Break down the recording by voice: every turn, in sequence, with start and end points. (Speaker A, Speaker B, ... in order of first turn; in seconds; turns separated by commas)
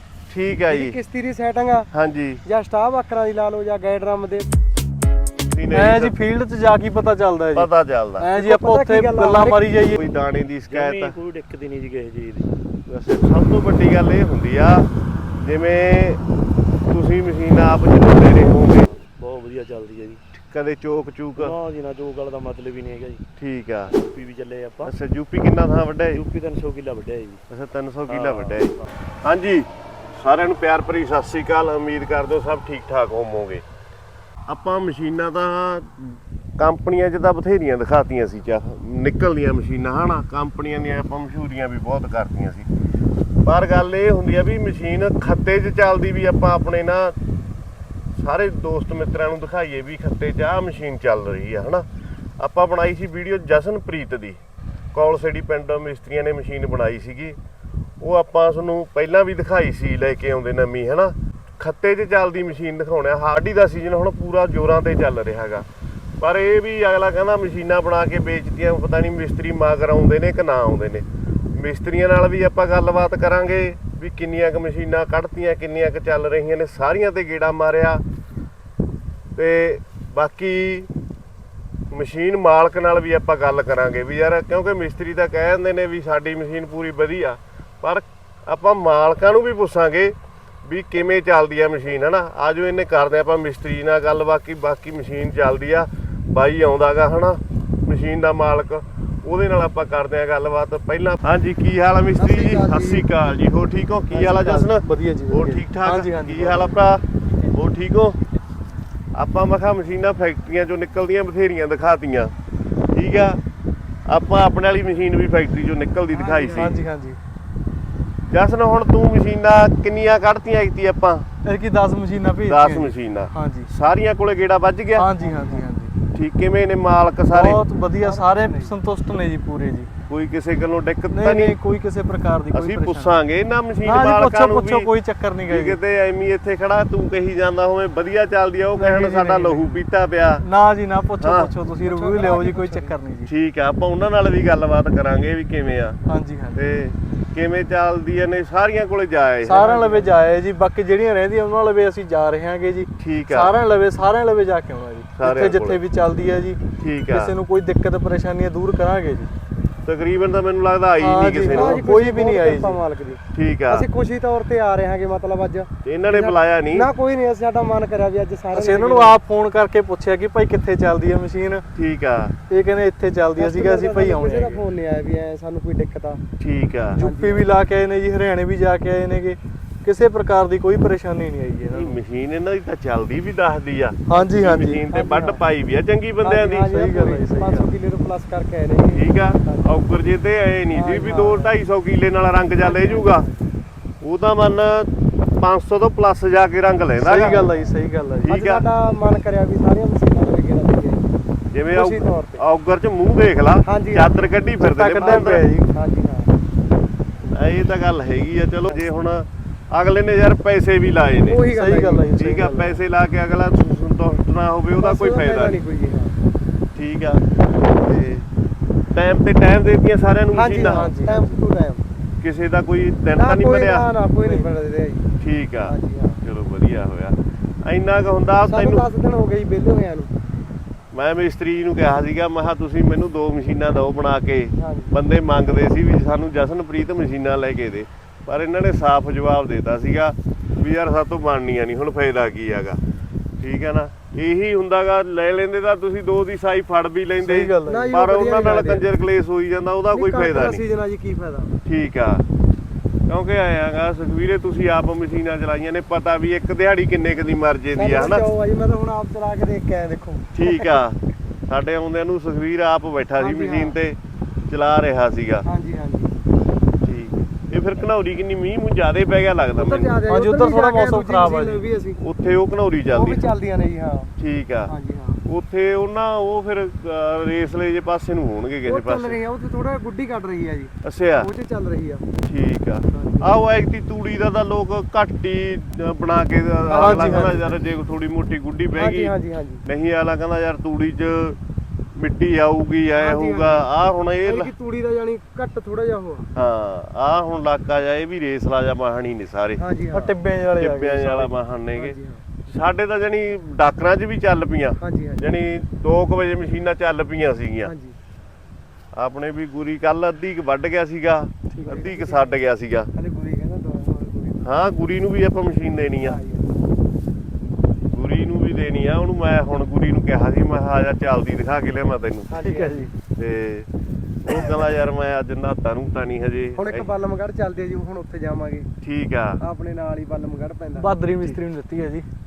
Speaker A: 0.3-0.9, Speaker B: 0.7-1.9, Speaker A: 1.9-2.4, Speaker B: 2.4-4.5, Speaker A: 5.4-6.1, Speaker C: 5.7-10.0, Speaker A: 7.5-8.3, Speaker B: 8.3-9.6, Speaker A: 9.9-11.2, Speaker D: 10.7-12.6, Speaker A: 12.9-16.2, Speaker A: 16.9-18.9, Speaker D: 18.8-20.2, Speaker A: 20.3-21.6, Speaker D: 21.4-23.2, Speaker A: 23.4-23.9, Speaker D: 23.9-24.9, Speaker A: 24.8-26.2, Speaker D: 26.1-27.4, Speaker A: 27.5-33.6, Speaker D: 28.1-28.9, Speaker A: 34.5-42.7, Speaker A: 43.4-47.1, Speaker A: 48.2-51.9, Speaker A: 52.4-54.4, Speaker A: 54.9-57.4, Speaker A: 58.0-65.7, Speaker A: 66.2-78.0, Speaker A: 79.3-80.9, Speaker A: 81.9-90.1, Speaker A: 90.7-108.2, Speaker B: 102.2-103.0, Speaker C: 104.1-106.8, Speaker A: 109.1-112.3, Speaker A: 112.9-113.4, Speaker A: 114.0-116.8, Speaker B: 116.1-116.7, Speaker C: 116.5-117.2, Speaker A: 118.3-121.2, Speaker C: 121.4-123.7, Speaker A: 122.4-125.1, Speaker C: 125.0-125.9, Speaker B: 125.2-125.7, Speaker A: 126.1-127.6, Speaker C: 127.3-129.9, Speaker B: 128.0-128.7, Speaker A: 130.1-131.6, Speaker C: 131.1-133.1, Speaker A: 132.5-134.9, Speaker C: 133.8-135.8, Speaker A: 135.5-140.4, Speaker C: 138.7-139.8, Speaker C: 140.4-143.3, Speaker A: 141.2-141.5, Speaker B: 141.8-143.0, Speaker A: 143.3-146.0, Speaker C: 146.1-146.6, Speaker A: 146.6-149.6, Speaker C: 149.4-159.3, Speaker B: 149.5-150.1, Speaker A: 153.0-153.6, Speaker A: 155.2-155.8, Speaker A: 156.8-157.3, Speaker A: 159.8-161.9, Speaker C: 161.0-162.8, Speaker B: 161.5-169.2, Speaker A: 163.3-163.8, Speaker A: 165.8-166.9, Speaker C: 168.5-171.6, Speaker A: 171.8-172.3, Speaker C: 172.5-174.6, Speaker B: 173.4-176.2, Speaker A: 176.4-177.0, Speaker C: 177.0-182.0, Speaker B: 177.0-177.5, Speaker A: 181.7-186.7, Speaker C: 184.1-184.8, Speaker B: 184.9-185.4, Speaker B: 186.2-189.7, Speaker C: 186.6-187.7, Speaker A: 188.9-193.2, Speaker B: 190.7-191.6, Speaker B: 192.6-193.5, Speaker A: 194.0-197.5, Speaker C: 197.0-198.3, Speaker B: 197.1-197.7, Speaker A: 198.2-198.6, Speaker B: 198.2-201.0, Speaker A: 201.5-205.4, Speaker B: 201.7-202.4, Speaker B: 203.7-206.3, Speaker C: 204.6-205.7, Speaker A: 207.2-211.4, Speaker B: 211.2-212.1, Speaker C: 211.4-212.8, Speaker A: 212.1-215.6, Speaker B: 214.8-216.2, Speaker A: 216.7-217.2, Speaker A: 217.8-218.3, Speaker A: 218.9-220.9, Speaker B: 220.3-221.8, Speaker C: 220.7-221.3, Speaker A: 222.2-223.9, Speaker B: 223.1-225.1, Speaker C: 224.2-224.5, Speaker A: 225.2-228.8, Speaker B: 225.6-226.2, Speaker B: 228.5-230.1, Speaker A: 230.9-242.8, Speaker B: 234.6-234.9, Speaker A: 243.4-250.6, Speaker C: 247.2-247.9, Speaker B: 247.7-248.9, Speaker B: 249.9-251.6, Speaker A: 251.6-252.2, Speaker A: 253.1-258.2, Speaker B: 257.7-260.8, Speaker A: 260.3-264.0, Speaker B: 263.2-263.8, Speaker A: 264.5-265.4, Speaker B: 265.4-266.1, Speaker A: 266.8-269.9, Speaker B: 269.6-272.0, Speaker C: 270.1-271.6, Speaker A: 272.0-273.2, Speaker B: 272.9-274.1, Speaker A: 274.2-274.7, Speaker B: 274.7-275.2, Speaker A: 275.2-279.2, Speaker B: 278.6-282.1, Speaker A: 280.8-281.3, Speaker A: 282.2-289.1, Speaker B: 282.9-283.3, Speaker B: 286.6-287.5, Speaker C: 286.7-287.4, Speaker B: 288.7-289.6, Speaker A: 289.6-291.4, Speaker A: 291.9-294.5, Speaker B: 292.9-293.7, Speaker B: 294.2-296.3, Speaker A: 296.3-299.6, Speaker B: 299.6-300.1, Speaker C: 299.9-301.3, Speaker A: 300.6-307.7, Speaker B: 301.8-302.2, Speaker B: 304.8-305.2, Speaker B: 307.6-307.9, Speaker A: 308.9-312.9, Speaker B: 311.5-312.4, Speaker B: 312.9-314.5, Speaker A: 314.4-316.2, Speaker B: 316.0-316.6, Speaker A: 317.9-322.3, Speaker B: 322.3-322.9, Speaker C: 322.4-322.9, Speaker A: 323.2-323.7, Speaker A: 324.2-326.9, Speaker B: 326.6-328.7, Speaker A: 328.8-329.4, Speaker B: 329.4-331.4, Speaker C: 330.8-332.1